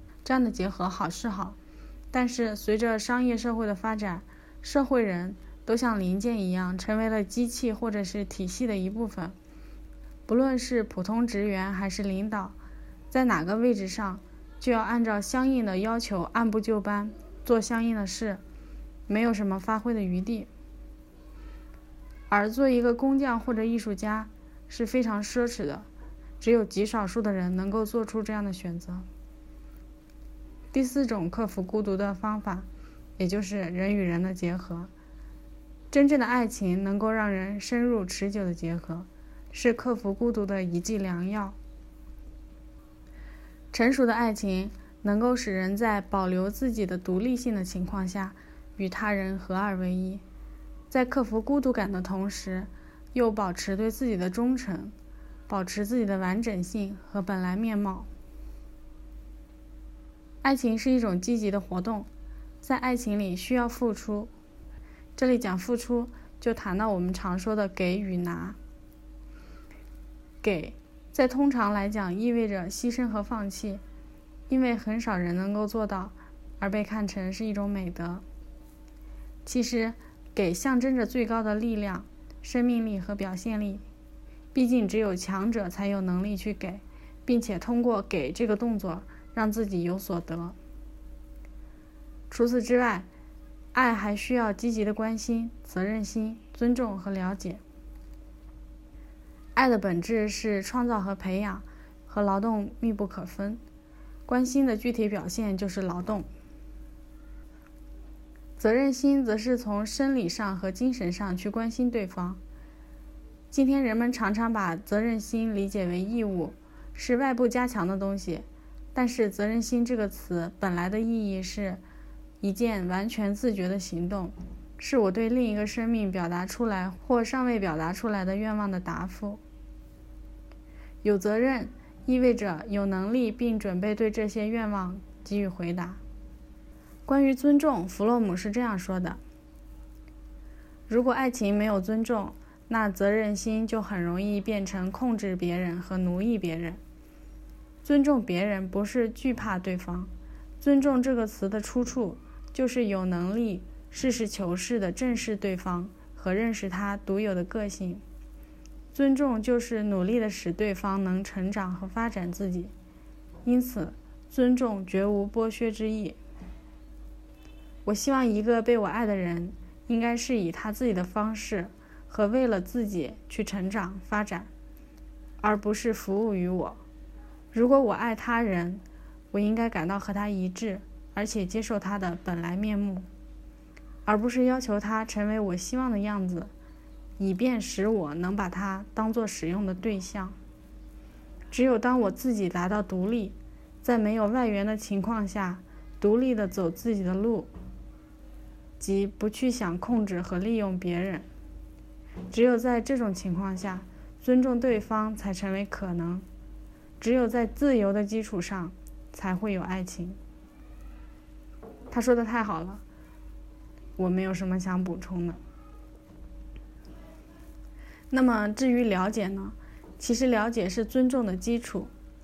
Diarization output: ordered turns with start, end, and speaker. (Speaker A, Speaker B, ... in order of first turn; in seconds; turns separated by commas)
Speaker A: 0.2-1.6, Speaker A: 2.1-9.3, Speaker A: 10.3-12.5, Speaker A: 13.1-18.4, Speaker A: 19.1-20.5, Speaker A: 22.3-25.9, Speaker A: 26.4-29.1, Speaker A: 30.7-32.6, Speaker A: 33.2-34.9, Speaker A: 35.9-41.5, Speaker A: 43.7-50.2, Speaker A: 50.9-54.9, Speaker A: 55.5-58.1, Speaker A: 60.4-62.1, Speaker A: 62.6-64.3, Speaker A: 65.2-68.6, Speaker A: 70.4-73.8, Speaker A: 74.5-78.2, Speaker A: 79.4-83.8, Speaker A: 84.5-90.5, Speaker A: 92.3-93.1, Speaker A: 93.7-97.6, Speaker A: 99.5-103.6, Speaker A: 104.3-106.3, Speaker A: 108.6-112.4, Speaker A: 113.5-121.8, Speaker A: 122.4-129.4, Speaker A: 131.0-136.0, Speaker A: 137.1-139.2, Speaker A: 140.9-146.8, Speaker A: 147.8-150.1, Speaker A: 150.6-158.0, Speaker A: 158.9-162.7, Speaker A: 163.4-166.2, Speaker A: 167.8-174.5, Speaker A: 175.4-176.8, Speaker A: 177.5-183.1, Speaker A: 184.1-186.5, Speaker A: 187.2-190.3, Speaker A: 191.5-197.5, Speaker A: 198.8-201.2, Speaker A: 202.3-206.2, Speaker A: 207.0-210.2, Speaker A: 211.9-212.8, Speaker A: 214.0-215.4, Speaker A: 218.1-221.9